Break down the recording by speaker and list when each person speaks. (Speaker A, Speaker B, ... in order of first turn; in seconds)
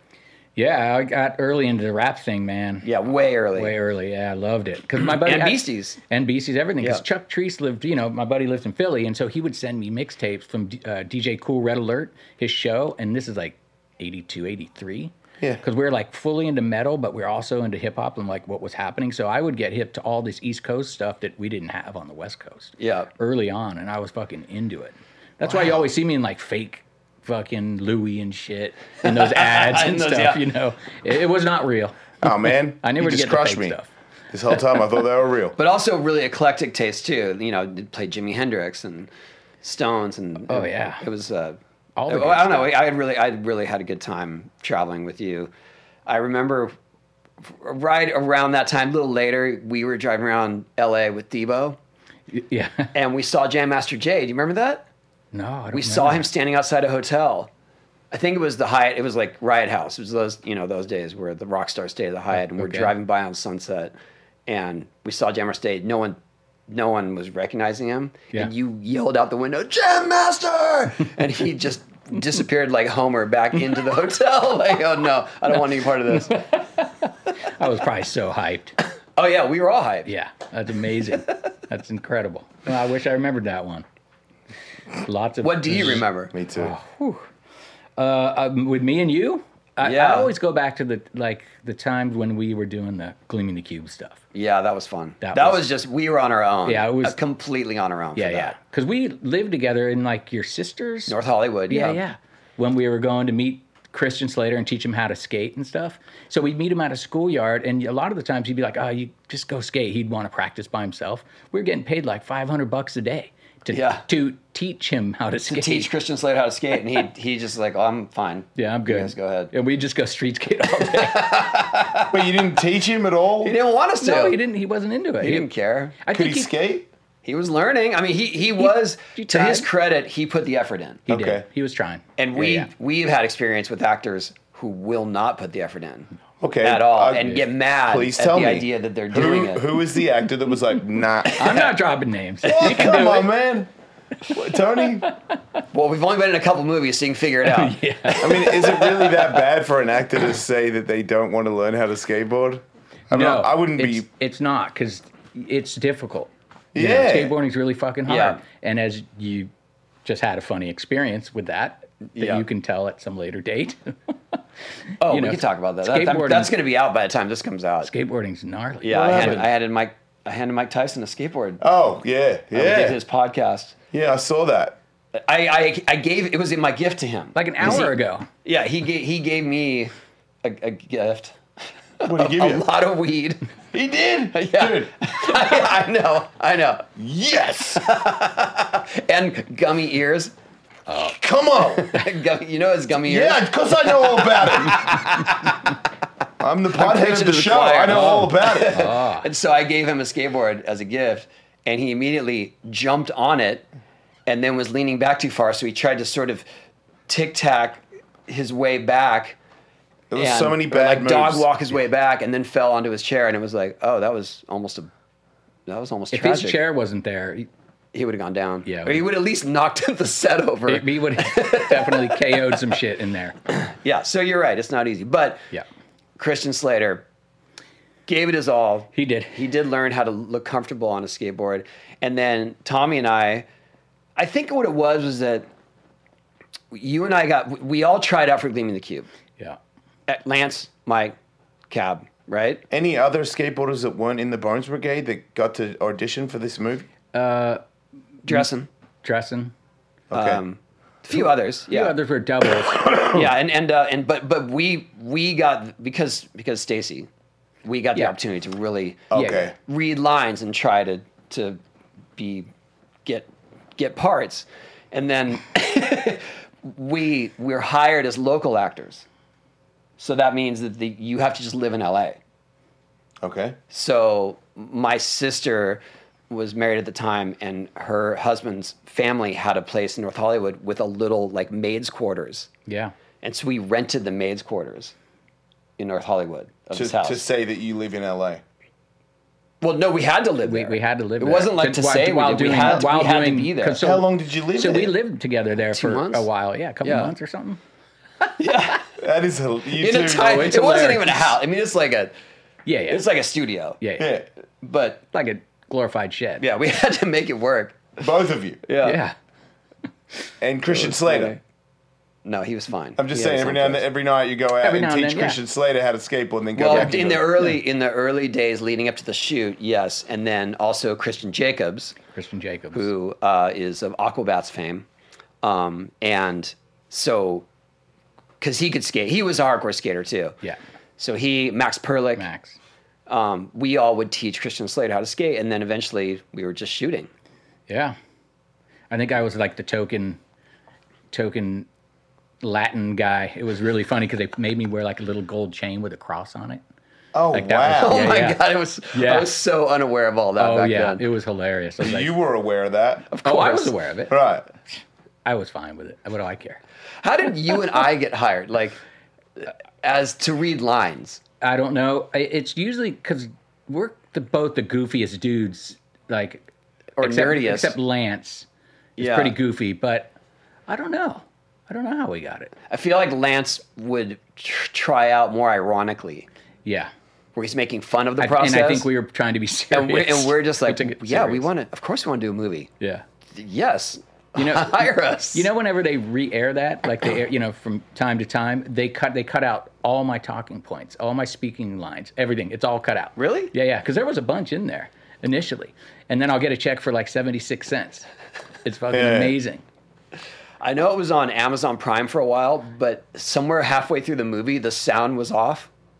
Speaker A: 0.6-2.9, 3.5-32.2, 32.8-33.9, 40.5-41.0, 42.0-42.8, 52.3-52.9, 55.3-56.3, 62.4-62.9, 76.1-78.7, 80.1-83.8, 85.0-87.3, 88.0-94.2, 95.2-95.7, 96.7-97.2, 98.2-101.2, 101.7-115.9, 118.6-121.4, 124.0-125.5, 126.0-126.6, 128.6-129.7, 131.1-132.7, 141.3-143.3, 147.4-148.9, 153.1-159.5, 160.1-164.4, 165.0-166.5, 167.8-169.5, 177.3-178.3, 190.9-191.2, 197.9-199.2, 216.1-217.5, 218.7-219.1, 220.7-223.4, 228.9-229.5, 247.1-247.6, 249.0-249.5, 251.2-253.2, 259.1-259.5, 282.7-282.9, 290.4-297.6, 300.1-301.4, 302.7-303.1, 303.8-304.2, 305.1-306.4, 308.8-309.1, 314.6-315.4, 322.1-322.9, 332.2-332.6, 337.7-338.0, 338.9-340.2, 341.1-341.7, 342.4-346.6, 347.3-348.4, 348.9-349.4, 350.4-352.1, 353.2-354.2, 355.2-356.6, 361.4-366.5, 367.0-368.5, 369.0-370.1, 370.7-372.5, 376.6-376.9, 378.2-381.5, 384.4-398.1, 398.6-399.6
Speaker B: 2.8-3.7, 5.1-6.0, 22.8-23.1, 29.0-30.4, 35.6-39.1, 39.6-45.5, 46.1-46.7, 47.4-51.8, 52.9-54.9, 55.7-57.5, 58.1-64.0, 64.5-76.4, 79.2-80.1, 85.4-86.3, 89.8-90.3, 94.3-98.6, 101.1-102.0, 113.7-114.0, 115.5-119.5, 120.8-122.2, 123.4-124.4, 125.2-126.0, 127.2-131.1, 132.2-136.1, 136.6-139.7, 141.2-141.7, 142.5-142.9, 145.7-149.1, 158.1-158.4, 162.1-162.4, 165.0-167.9, 168.8-171.6, 172.5-173.8, 175.1-177.9, 178.4-179.9, 180.4-181.4, 182.0-183.4, 184.3-186.9, 187.7-190.3, 191.7-195.8, 196.7-203.7, 204.3-206.4, 207.1-209.4, 210.2-214.9, 215.7-216.6, 217.9-222.6, 223.5-225.4, 226.2-227.1, 228.1-233.5, 234.2-235.5, 236.7-239.1, 240.1-241.2, 241.7-242.6, 248.2-248.7, 250.1-252.0, 252.9-257.1, 257.6-261.6, 262.2-262.5, 263.1-269.1, 270.0-272.2, 273.7-282.5, 283.2-284.9, 285.8-287.2, 289.6-293.8, 295.7-296.3, 296.8-297.1, 298.4-298.9, 299.8-302.1, 302.9-303.8, 304.6-305.0, 306.4-307.9, 308.6-309.0, 310.7-311.4, 312.2-313.8, 316.6-322.0, 322.7-324.9, 325.4-327.5, 328.4-330.4, 331.0-332.3, 333.1-337.1, 347.8-351.0, 353.1-353.8, 357.0-358.8, 359.4-361.2, 367.0-367.7, 369.0-369.4, 372.7-376.3, 377.4-378.9, 379.7-382.7, 383.4-385.5, 393.2-393.5, 400.6-405.7
Speaker C: 32.2-33.8, 34.3-35.6, 86.3-86.7, 122.1-123.6, 126.1-126.9, 131.1-131.5, 136.4-141.6, 142.4-143.7, 144.3-145.1, 148.2-154.1, 156.7-157.3, 168.9-169.4, 171.6-173.0, 173.9-174.8, 182.1-182.7, 183.7-184.9, 187.0-187.9, 190.9-192.0, 193.1-195.2, 196.4-198.8, 210.1-211.5, 242.7-246.9, 250.1-250.4, 252.8-253.2, 259.1-259.5, 273.2-273.6, 286.7-288.4, 293.8-294.9, 299.0-300.4, 304.0-304.2, 308.0-308.6, 310.4-311.4, 313.0-317.4, 347.1-348.1, 351.8-353.1, 354.1-354.5, 398.9-399.4